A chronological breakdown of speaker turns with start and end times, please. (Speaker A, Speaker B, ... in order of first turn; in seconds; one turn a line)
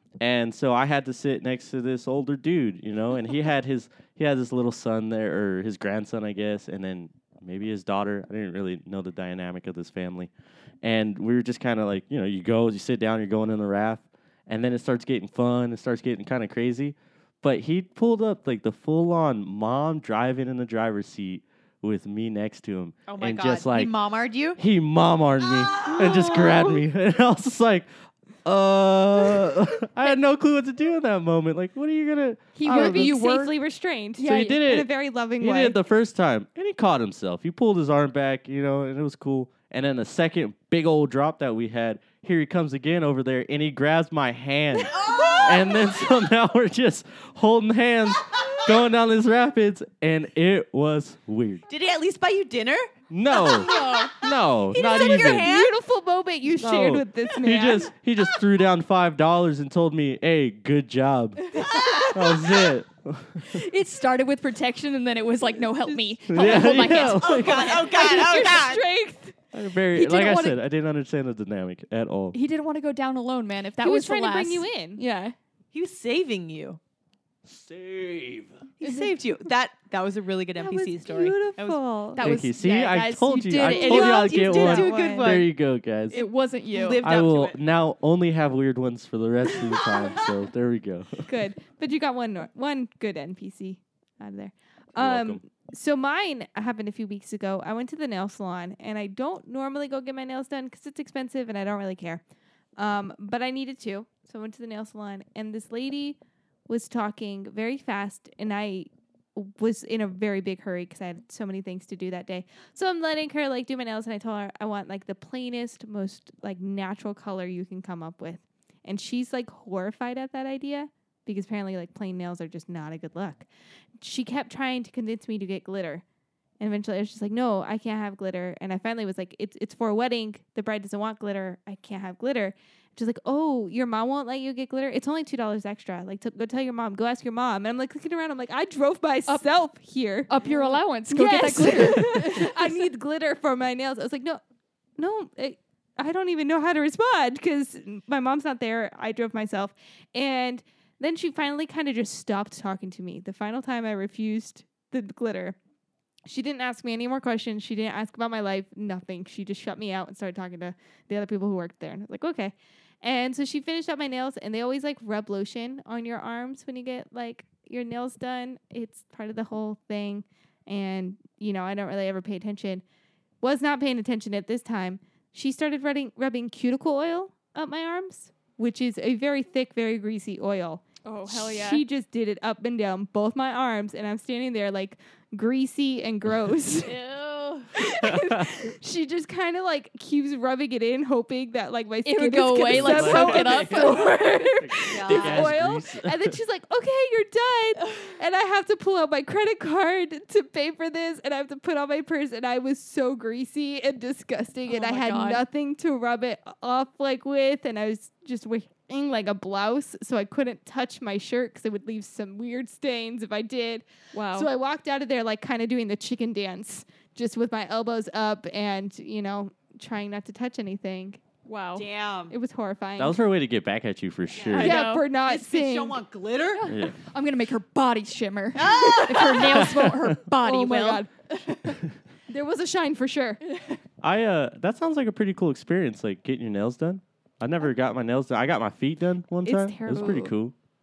Speaker A: 0.2-10.3
Speaker A: 10.8-23.9
Speaker B: 23.1-24.6
Speaker A: 24.6-27.9
Speaker B: 25.7-26.5
Speaker A: 28.4-33.1
Speaker C: 32.5-33.6
Speaker D: 32.6-35.8
Speaker C: 34.2-34.6
Speaker A: 34.2-51.6
Speaker B: 44.8-46.1
Speaker B: 51.7-55.7
Speaker A: 53.1-55.5
Speaker C: 53.5-54.1
Speaker D: 54.8-57.9
Speaker A: 56.6-63.6
Speaker C: 61.5-62.5
Speaker B: 61.6-62.3
Speaker C: 63.4-68.1
Speaker D: 65.9-69.3
Speaker A: 66.3-67.8
Speaker B: 66.4-68.8
Speaker A: 69.5-72.4
Speaker C: 69.9-70.6
Speaker C: 72.3-75.3
Speaker D: 73.8-75.0
Speaker B: 75.7-76.8
Speaker A: 77.5-78.6
Speaker B: 78.8-81.8
Speaker D: 80.5-82.3
Speaker C: 82.2-84.8
Speaker A: 82.2-86.2
Speaker B: 83.6-85.5
Speaker D: 84.2-85.4
Speaker C: 86.1-87.0
Speaker B: 86.1-87.6
Speaker A: 87.0-91.3
Speaker D: 91.2-102.2
Speaker A: 95.0-95.4
Speaker D: 102.8-123.5
Speaker D: 124.0-126.0
Speaker D: 126.6-144.4
Speaker C: 140.3-142.9
Speaker D: 145.0-155.6
Speaker D: 156.2-172.8
Speaker D: 173.4-186.9
Speaker C: 181.0-181.8
Speaker C: 186.8-187.7
Speaker D: 187.7-221.2
Speaker A: 188.0-188.6
Speaker C: 192.1-194.1
Speaker A: 192.7-196.4
Speaker B: 194.9-195.5
Speaker C: 204.7-205.4
Speaker C: 214.1-214.5
Speaker C: 221.4-221.9
Speaker B: 221.8-222.3
Speaker D: 222.3-223.2
Speaker A: 223.0-224.8
Speaker B: 224.3-226.7
Speaker C: 224.5-225.1
Speaker D: 224.6-226.0
Speaker C: 226.6-231.7
Speaker A: 226.7-226.9
Speaker B: 228.6-229.9
Speaker A: 229.6-230.1
Speaker D: 230.3-231.1
Speaker D: 232.3-233.4
Speaker A: 234.0-240.6
Speaker D: 239.4-240.3
Speaker B: 239.9-240.3